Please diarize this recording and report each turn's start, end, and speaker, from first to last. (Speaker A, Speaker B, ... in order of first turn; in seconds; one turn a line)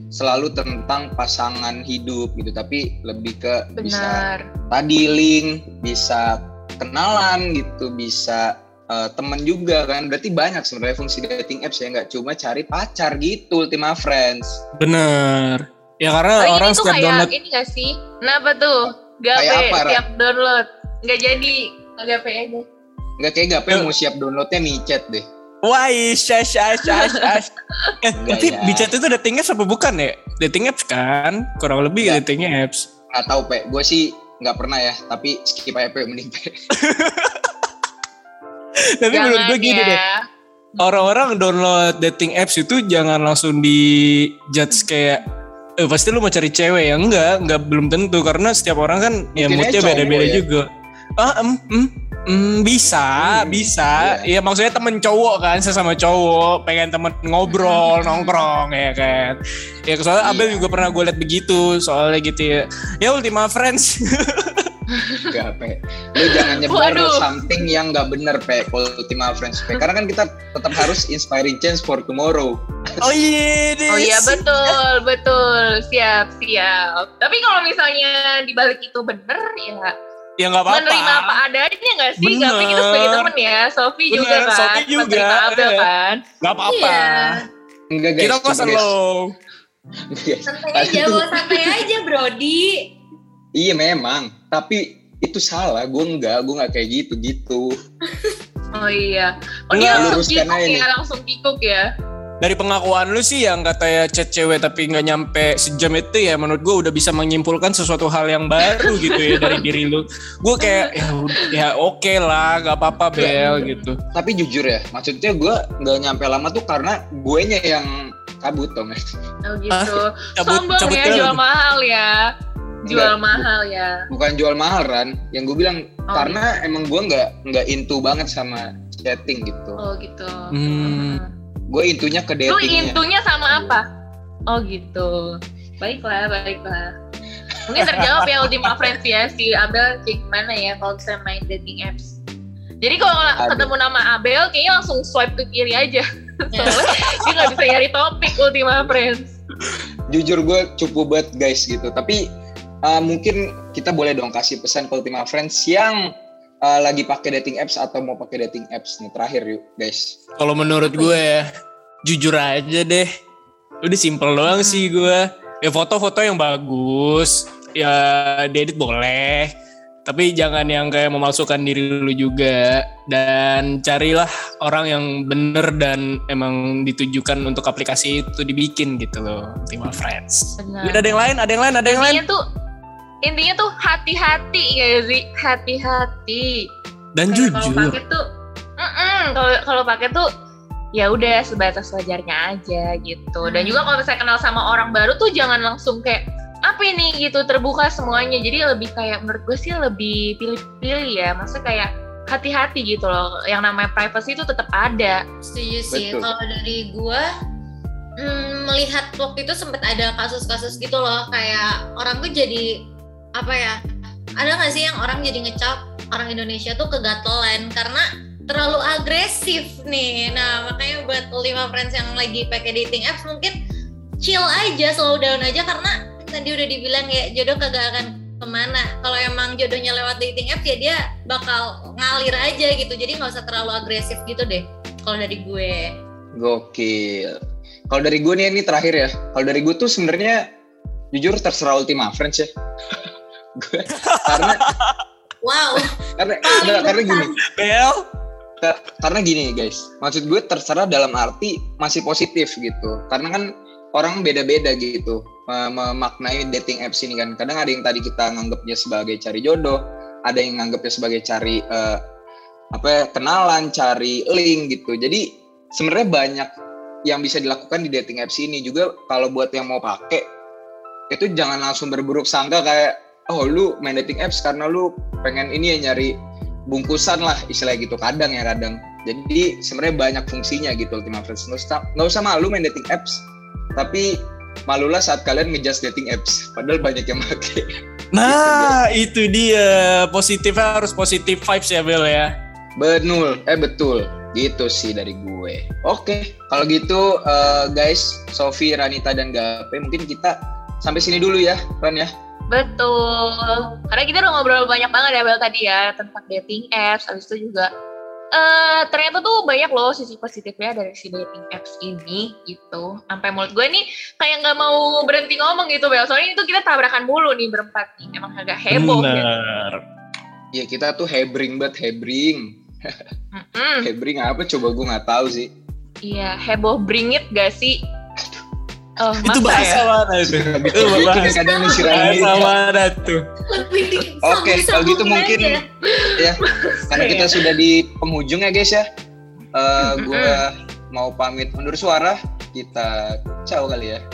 Speaker A: 0.1-14.6
Speaker B: 3.8-4.4
Speaker C: 14.8-17.3
Speaker B: 16.4-22.6
Speaker A: 19.4-20.0
Speaker A: 23.2-25.2
Speaker C: 25.6-32.9
Speaker B: 26.9-27.3
Speaker A: 28.2-28.9
Speaker A: 33.1-36.5
Speaker C: 36.8-37.5
Speaker C: 39.0-40.0
Speaker B: 39.1-40.2
Speaker B: 40.8-41.1
Speaker C: 40.8-45.2
Speaker C: 45.8-50.7
Speaker A: 49.4-50.4
Speaker C: 51.2-64.7
Speaker A: 53.1-54.3
Speaker B: 57.5-58.5
Speaker A: 60.2-60.7
Speaker B: 64.9-65.3
Speaker A: 65.3-73.1
Speaker B: 66.2-67.5
Speaker C: 73.0-74.8
Speaker B: 73.9-80.0
Speaker C: 80.4-81.4
Speaker B: 80.7-86.2
Speaker C: 82.2-83.3
Speaker C: 84.1-85.9
Speaker C: 86.4-87.5
Speaker D: 86.7-87.4
Speaker A: 87.9-88.9
Speaker C: 88.2-89.3
Speaker A: 90.1-91.8
Speaker D: 90.5-92.7
Speaker A: 93.6-97.7
Speaker B: 98.7-101.9
Speaker C: 99.7-100.2
Speaker A: 99.9-100.8
Speaker C: 102.4-114.0
Speaker B: 108.7-109.6
Speaker B: 110.6-111.5
Speaker B: 113.2-113.9
Speaker A: 114.1-119.0
Speaker B: 119.5-122.2
Speaker C: 119.7-121.4
Speaker A: 122.9-123.5
Speaker B: 122.9-124.1
Speaker A: 124.1-129.8
Speaker B: 126.1-126.4
Speaker B: 129.8-131.3
Speaker C: 130.5-131.2
Speaker A: 131.7-133.8
Speaker B: 132.5-133.8
Speaker B: 134.5-136.9
Speaker B: 137.7-142.2
Speaker B: 142.8-149.4
Speaker A: 143.4-143.7
Speaker D: 146.5-146.8
Speaker C: 146.9-147.5
Speaker A: 150.1-152.2
Speaker A: 152.8-156.1
Speaker A: 156.6-160.2
Speaker C: 160.4-161.4
Speaker B: 160.9-161.2
Speaker C: 162.1-163.1
Speaker C: 163.8-169.5
Speaker B: 164.5-164.9
Speaker C: 170.1-182.2
Speaker B: 180.6-181.3
Speaker B: 181.9-182.4
Speaker B: 183.3-186.7
Speaker C: 187.2-188.0
Speaker B: 187.3-188.2
Speaker B: 188.8-190.3
Speaker B: 190.9-205.2
Speaker D: 193.4-193.9
Speaker D: 205.4-207.3
Speaker A: 205.9-206.3
Speaker D: 208.2-212.8
Speaker D: 213.4-213.8
Speaker D: 214.4-223.6
Speaker D: 224.2-235.9
Speaker A: 236.4-237.4
Speaker A: 237.9-240.4
Speaker A: 241.1-242.5
Speaker A: 243.6-244.6
Speaker C: 244.0-245.0
Speaker D: 245.4-247.3
Speaker A: 246.2-247.3
Speaker C: 247.5-248.0
Speaker A: 248.6-262.0
Speaker A: 262.7-266.5
Speaker A: 267.1-270.2
Speaker A: 271.1-276.1
Speaker A: 276.7-283.2
Speaker A: 283.8-284.1
Speaker A: 284.7-287.7
Speaker C: 288.1-292.3
Speaker A: 288.2-288.8
Speaker A: 292.8-302.1
Speaker B: 302.5-307.7
Speaker B: 308.3-319.3
Speaker C: 318.7-319.8
Speaker A: 320.5-323.0
Speaker B: 323.4-323.9
Speaker A: 323.8-325.5
Speaker B: 326.1-327.8
Speaker B: 329.0-329.8
Speaker C: 329.2-331.4
Speaker A: 330.2-332.5
Speaker D: 330.9-332.4
Speaker C: 331.9-333.2
Speaker D: 333.5-335.6
Speaker A: 334.2-335.6
Speaker B: 335.9-337.5
Speaker A: 336.2-338.9
Speaker A: 339.5-344.0
Speaker B: 339.8-340.4